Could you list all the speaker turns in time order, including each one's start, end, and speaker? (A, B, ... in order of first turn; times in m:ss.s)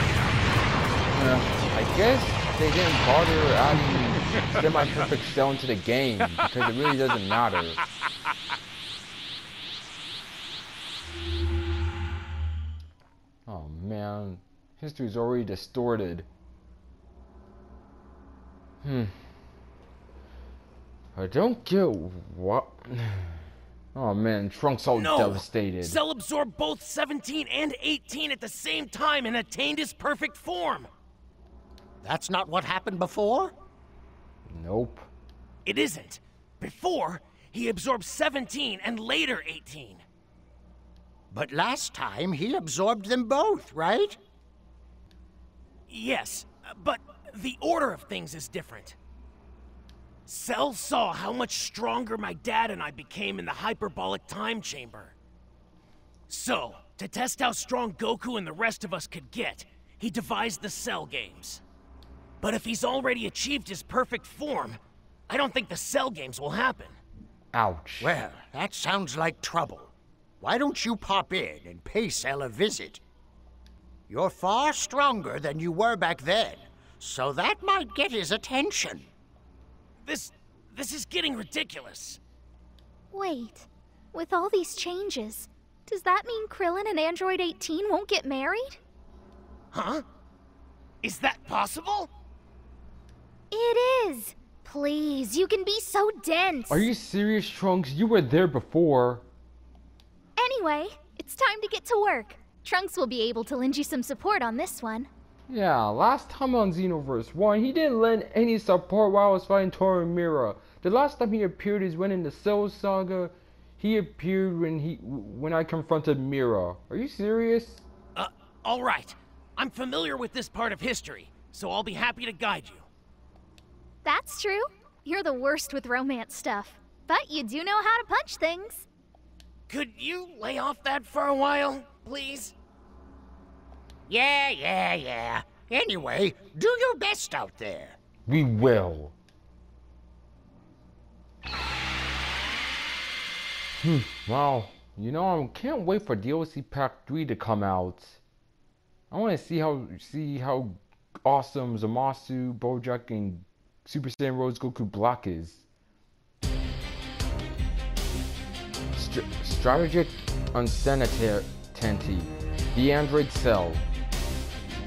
0:01.1-0:07.8 A
0:13.5-0:16.3 A
0:18.8-0:19.1 A
0:21.1-0:23.4 A
0:23.9-0:26.0 A
0:24.9-0:30.9 B
0:32.0-0:33.5 C
0:34.5-0:35.1 A
0:35.6-0:40.0 B
0:41.3-0:44.2 C
0:45.9-0:49.0 B
0:50.2-0:55.1 B
0:56.3-1:01.6 B
1:02.4-1:07.0 B
1:07.5-1:08.2 A
1:08.0-1:13.0 C
1:14.1-1:19.1 C
1:20.0-1:22.2 B
1:23.1-1:28.8 D
1:29.7-1:30.0 B
1:31.0-1:32.1 B
1:33.5-1:36.9 D
1:36.7-1:39.2 A
1:40.4-1:45.1 D
1:45.5-1:57.8 A
1:58.1-2:02.8 B
2:04.0-2:08.8 D
2:09.7-2:12.5 B
2:14.1-2:18.0 C
2:18.2-2:19.1 A
2:23.8-2:28.2 A
2:29.1-2:35.6 A
2:38.9-2:43.8 A